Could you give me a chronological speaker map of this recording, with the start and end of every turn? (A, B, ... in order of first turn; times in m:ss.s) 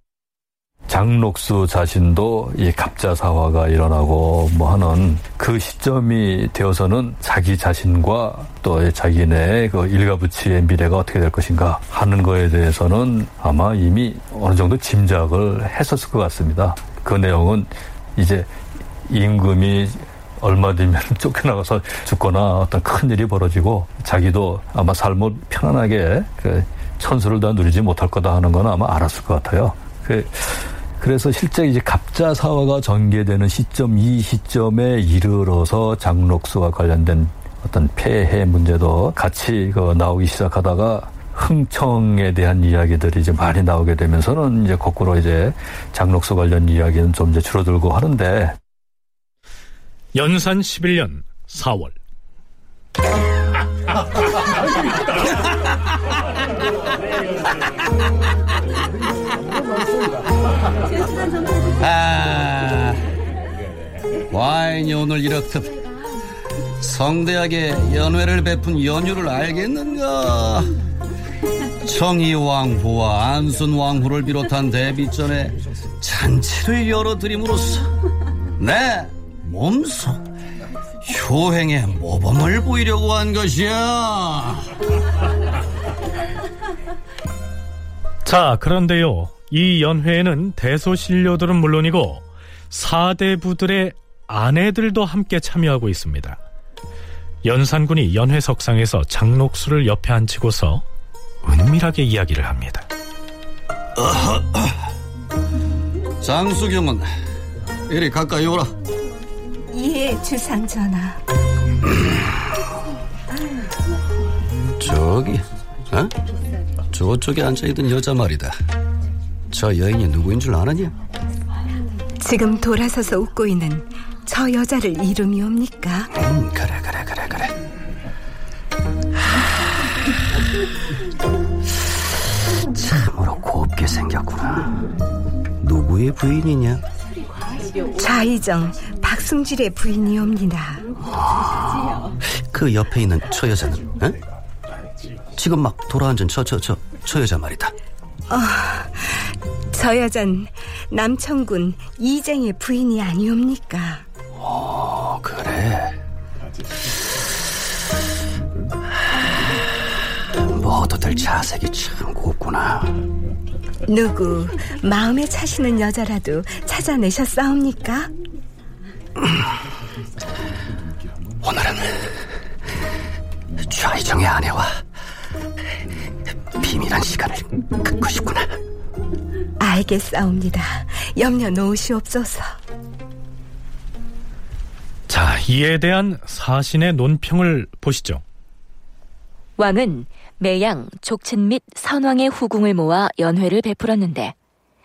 0:00.9-0:18.5 A
0:19.0-0:48.6 A
0:50.1-0:51.9 B
1:01.8-1:03.0 C
1:04.3-1:05.8 C
1:06.8-1:10.7 C
1:11.8-1:17.9 C
1:18.6-1:20.2 C
1:21.0-1:24.7 C
1:28.2-1:36.4 B
1:37.4-1:40.8 B
1:41.4-1:42.8 B
1:44.0-1:44.7 C
1:46.2-1:47.1 C
1:47.9-1:48.7 C
1:49.7-1:51.2 D
1:54.8-1:56.1 C
1:56.9-1:58.5 C
1:59.5-2:00.9 C
2:02.2-2:06.1 D
2:06.1-2:07.5 C
2:12.7-2:14.7 C
2:15.6-2:16.8 C
2:17.9-2:20.8 D
2:21.3-2:24.2 C
2:25.4-2:27.7 C
2:28.3-2:34.0 D
2:34.4-2:36.0 C
2:40.5-2:43.0 C
2:43.9-2:48.1 D
2:51.4-2:52.1 C
2:53.7-2:54.8 C
2:56.6-2:58.5 C
2:59.6-3:02.5 D
3:05.1-3:08.2 B
3:09.6-3:14.3 E